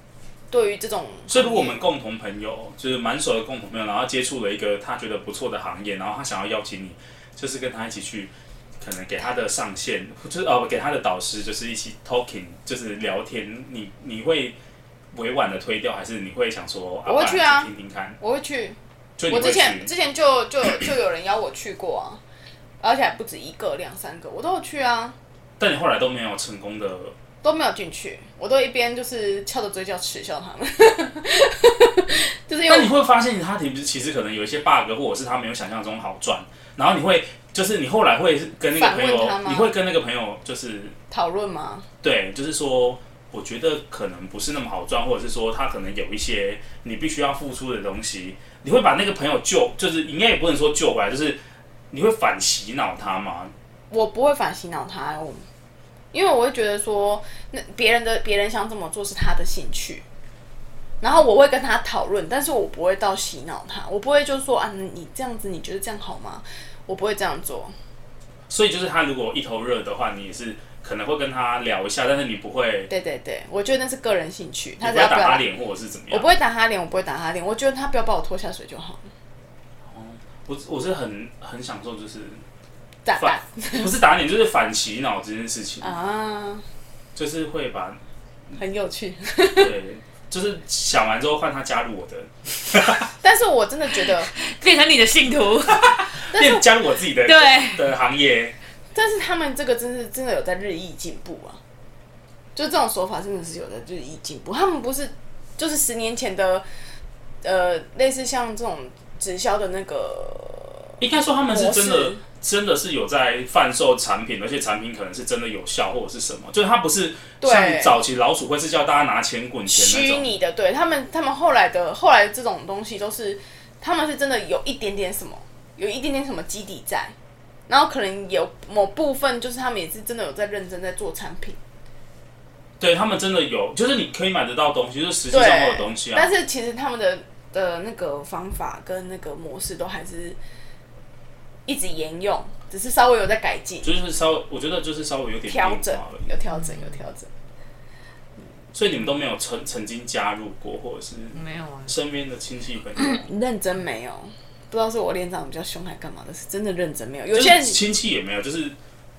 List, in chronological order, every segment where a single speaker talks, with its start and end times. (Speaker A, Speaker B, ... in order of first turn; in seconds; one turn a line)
Speaker A: 0.5-1.8
Speaker B: 1.3-14.6
Speaker B: 15.1-18.2
Speaker A: 17.1-18.8
Speaker B: 19.2-19.9
Speaker A: 19.3-22.2
Speaker A: 22.8-25.2
Speaker B: 25.6-27.1
Speaker A: 27.4-32.9
Speaker B: 32.7-41.0
Speaker A: 38.7-39.7
Speaker A: 41.1-41.9
Speaker B: 42.0-51.4
Speaker B: 51.9-53.5
Speaker A: 53.9-55.4
Speaker A: 56.1-60.0
Speaker A: 61.0-67.7
Speaker B: 68.5-72.9
Speaker A: 72.9-75.4
Speaker B: 74.8-76.3
Speaker A: 76.1-79.1
Speaker B: 79.9-82.4
Speaker A: 83.0-83.9
Speaker B: 83.2-85.9
Speaker A: 85.8-86.7
Speaker B: 87.2-88.6
Speaker A: 88.6-89.7
Speaker B: 89.6-93.1
Speaker A: 93.2-94.3
Speaker C: 94.3-96.1
Speaker B: 95.7-98.5
Speaker A: 96.3-96.6
Speaker C: 97.2-97.9
Speaker A: 98.9-101.6
Speaker A: 102.5-106.7
Speaker A: 107.4-112.2
Speaker B: 111.0-120.3
Speaker A: 117.4-118.0
Speaker A: 119.7-127.2
Speaker A: 127.7-131.6
Speaker B: 132.8-136.3
Speaker A: 135.3-140.4
Speaker A: 141.7-143.9
Speaker B: 143.8-146.3
Speaker A: 145.5-147.3
Speaker C: 146.5-147.0
Speaker B: 148.7-153.3
Speaker C: 151.3-151.9
Speaker A: 153.0-157.8
Speaker B: 157.3-158.8